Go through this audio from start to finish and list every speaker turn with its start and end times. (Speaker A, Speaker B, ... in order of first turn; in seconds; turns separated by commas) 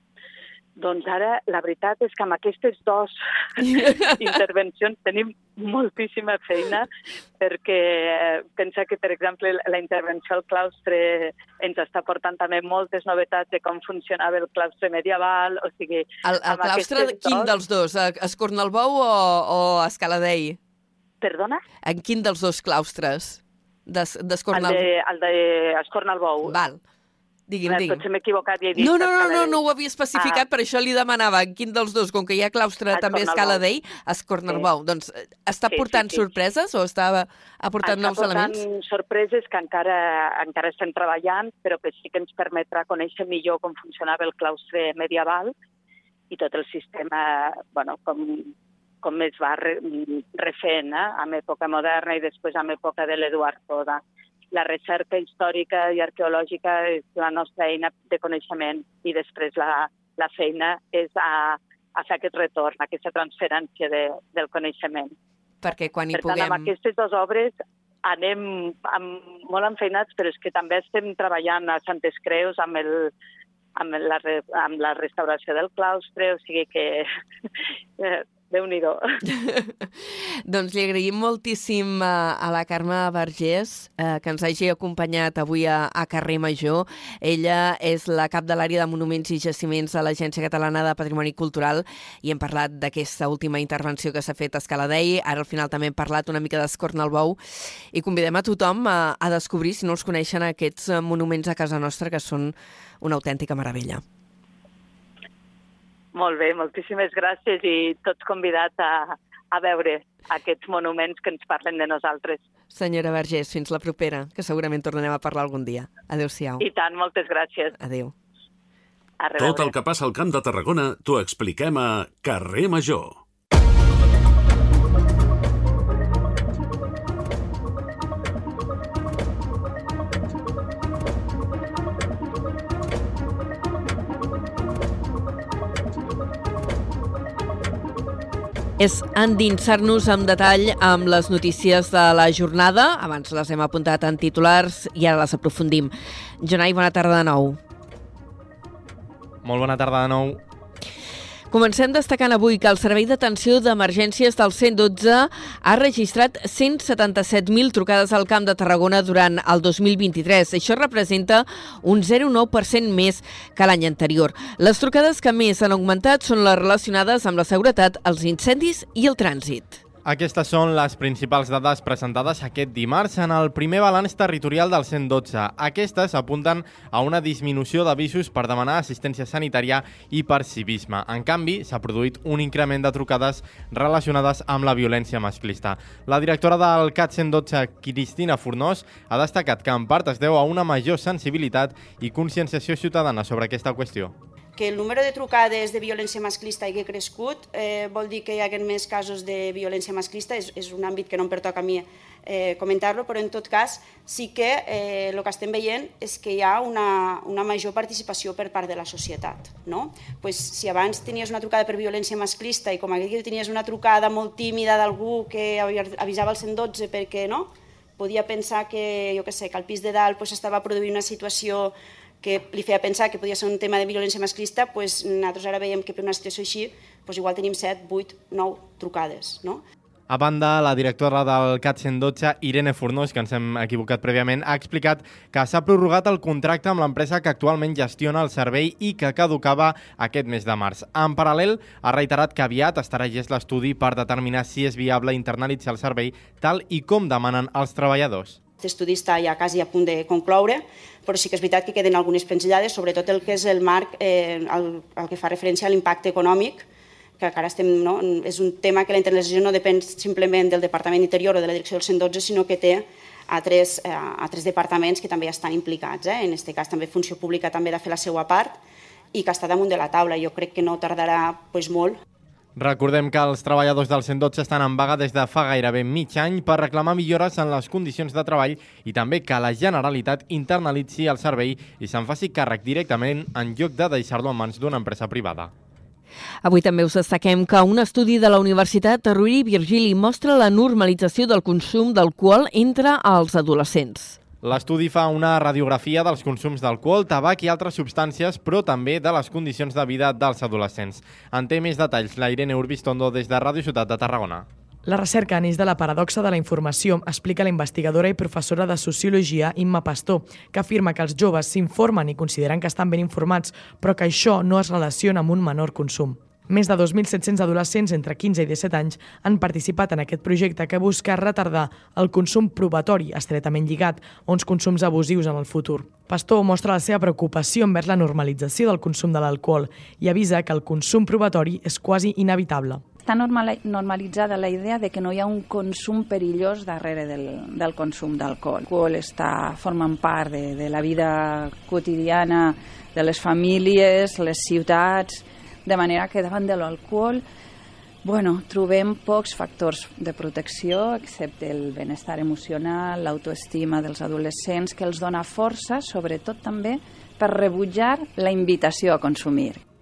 Speaker A: 0.8-6.9, Speaker B: 3.6-4.1, Speaker A: 7.4-17.5, Speaker B: 16.2-20.6, Speaker A: 21.2-21.6, Speaker B: 21.8-24.8, Speaker A: 24.5-26.6, Speaker B: 26.5-26.8, Speaker B: 27.5-28.0, Speaker A: 27.7-29.6, Speaker B: 28.8-38.6, Speaker A: 30.2-30.4, Speaker A: 32.9-33.6, Speaker A: 35.7-36.2, Speaker A: 37.8-45.5, Speaker A: 46.3-48.5, Speaker A: 49.0-54.0, Speaker A: 54.5-65.1, Speaker B: 65.6-66.7, Speaker A: 66.2-67.5, Speaker A: 68.0-73.1, Speaker A: 73.8-77.1, Speaker A: 78.0-79.0, Speaker B: 79.2-97.4, Speaker B: 97.9-104.0, Speaker A: 106.1-112.4, Speaker B: 112.7-116.6, Speaker A: 116.6-117.7, Speaker B: 117.8-118.1, Speaker A: 119.2-119.7, Speaker C: 119.4-123.2, Speaker B: 138.8-147.6, Speaker D: 149.4-150.4, Speaker B: 151.5-169.8, Speaker D: 170.0-194.1, Speaker E: 194.6-229.6, Speaker D: 230.1-248.4, Speaker E: 248.6-256.7, Speaker E: 257.2-268.6, Speaker E: 269.1-272.0, Speaker D: 272.6-285.5, Speaker B: 286.4-294.2, Speaker D: 294.4-304.5, Speaker F: 304.9-332.8, Speaker G: 333.0-347.2, Speaker G: 348.0-359.6